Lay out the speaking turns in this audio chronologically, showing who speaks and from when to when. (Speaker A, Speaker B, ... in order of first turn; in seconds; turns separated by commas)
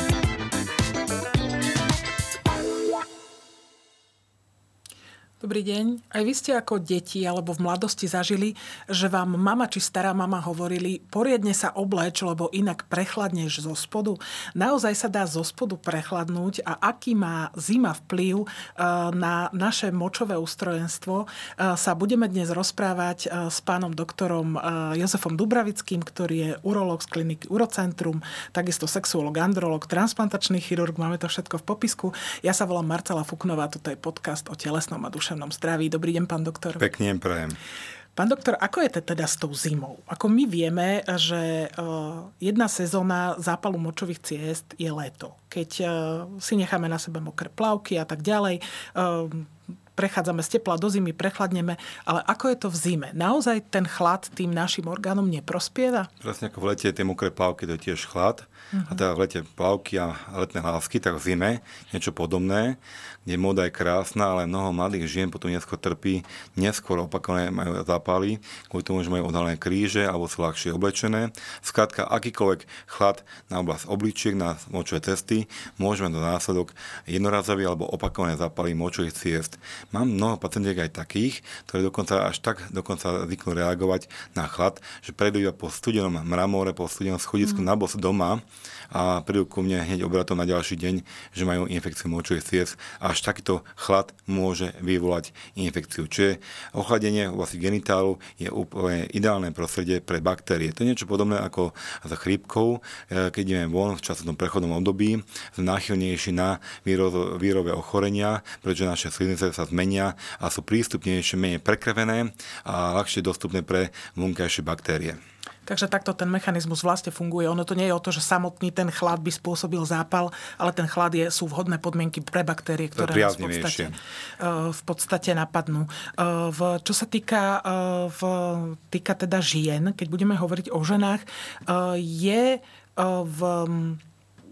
Speaker A: 5.4-36.9, Speaker B: 36.8-37.6, Speaker A: 38.2-56.1, Speaker B: 56.2-115.2, Speaker A: 58.7-59.0, Speaker A: 115.7-134.0, Speaker B: 122.9-123.9